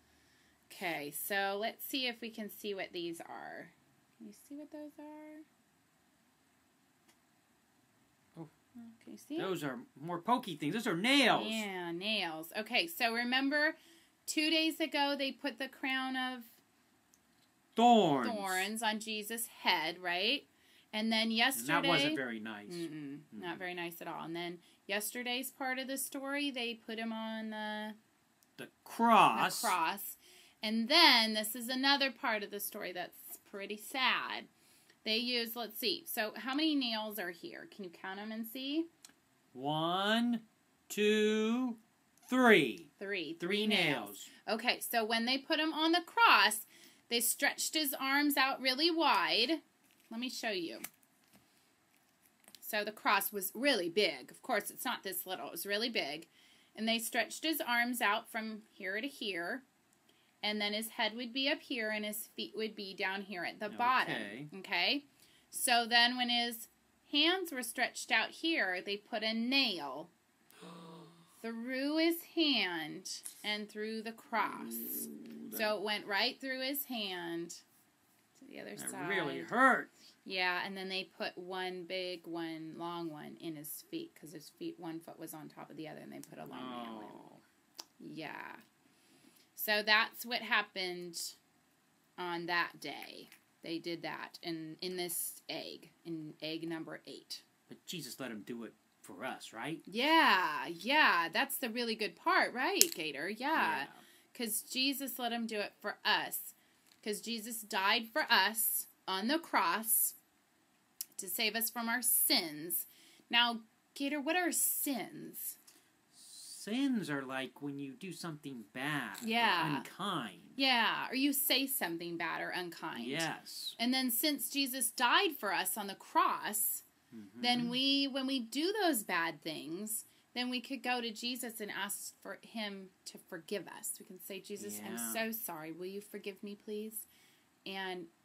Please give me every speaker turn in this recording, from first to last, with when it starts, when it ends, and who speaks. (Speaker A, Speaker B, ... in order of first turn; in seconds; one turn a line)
Speaker A: 0.7-5.4
Speaker A: 8.8-9.5
Speaker B: 9.3-11.7
Speaker A: 11.3-16.6
Speaker B: 17.8-18.7
Speaker A: 18.2-27.9
Speaker B: 21.5-23.6
Speaker B: 28.6-29.7
Speaker A: 29.3-34.5
Speaker A: 35.0-38.9
Speaker B: 39.5-44.3
Speaker A: 43.0-50.8
Speaker A: 52.6-59.6
Speaker A: 60.4-70.1
Speaker B: 63.7-64.5
Speaker A: 71.4-77.6
Speaker B: 74.4-75.8
Speaker A: 78.3-79.5
Speaker B: 78.8-79.9
Speaker A: 80.2-87.2
Speaker B: 86.5-87.4
Speaker A: 88.0-88.6
Speaker A: 89.5-91.4
Speaker A: 92.2-97.4
Speaker B: 97.7-99.8
Speaker A: 99.8-110.2
Speaker B: 103.5-104.0
Speaker A: 111.2-115.6
Speaker B: 116.1-120.6
Speaker A: 119.2-119.9
Speaker A: 120.5-126.8
Speaker B: 122.9-123.8
Speaker B: 127.1-127.8
Speaker A: 127.4-137.1
Speaker B: 134.6-135.2
Speaker A: 137.7-138.1